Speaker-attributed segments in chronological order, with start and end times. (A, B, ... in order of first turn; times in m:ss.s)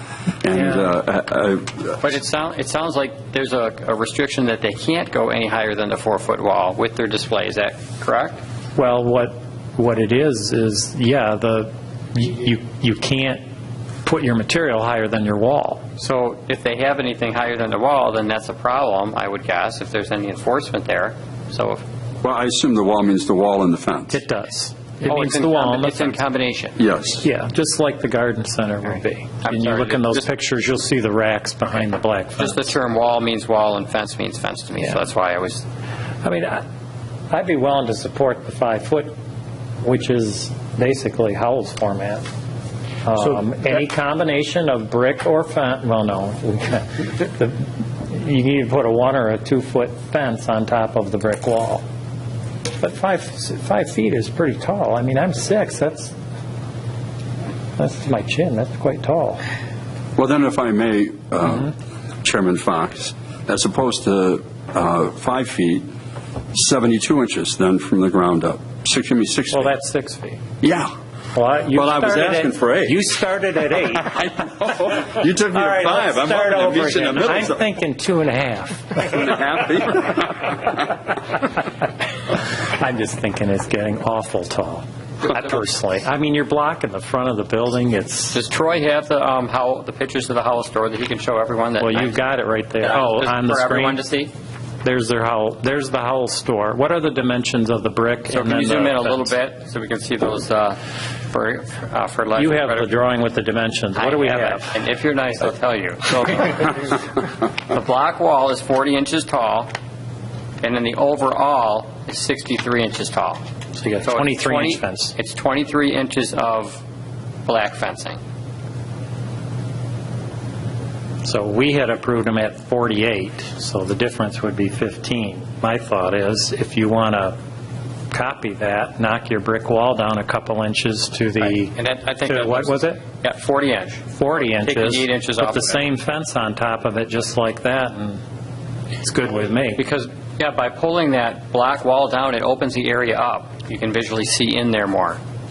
0:00.4-0:02.0 A
0:02.0-0:08.4 B
0:08.8-0:13.4 C
0:14.0-0:15.8 C
0:16.0-0:21.8 B
0:22.2-0:24.2 A
0:24.1-0:26.2 C
0:25.0-0:26.8 B
0:26.8-0:27.2 A
0:27.2-0:32.7 C
0:29.4-0:30.3 B
0:32.4-0:35.6 B
0:36.2-0:36.6 C
0:37.3-0:39.1 C
0:39.8-0:42.2 C
0:43.0-0:51.8 C
0:52.8-0:56.1 C
0:57.8-0:59.4 C
1:00.2-1:05.9 A
1:06.5-1:09.7 A
1:09.5-1:10.4 C
1:10.6-1:10.9 A
1:11.4-1:14.5 C
1:11.7-1:13.0 A
1:14.2-1:17.6 A
1:15.9-1:19.2 C
1:19.0-1:20.8 A
1:22.6-1:28.4 C
1:28.3-1:32.2 B
1:31.8-1:34.0 C
1:32.8-1:34.3 B
1:34.8-1:39.3 C
1:38.3-1:40.8 B
1:41.3-1:42.9 B
1:42.4-1:44.7 C
1:44.0-1:47.1 B
1:47.7-1:49.7 B
1:50.6-1:53.4 B
1:53.8-1:55.1 C
1:54.0-1:56.8 B
1:57.5-1:58.2 B
2:01.2-2:07.4 C
2:08.1-2:13.0 C
2:11.4-2:15.9 B
2:14.2-2:18.2 C
2:19.0-2:19.8 C
2:19.8-2:25.2 B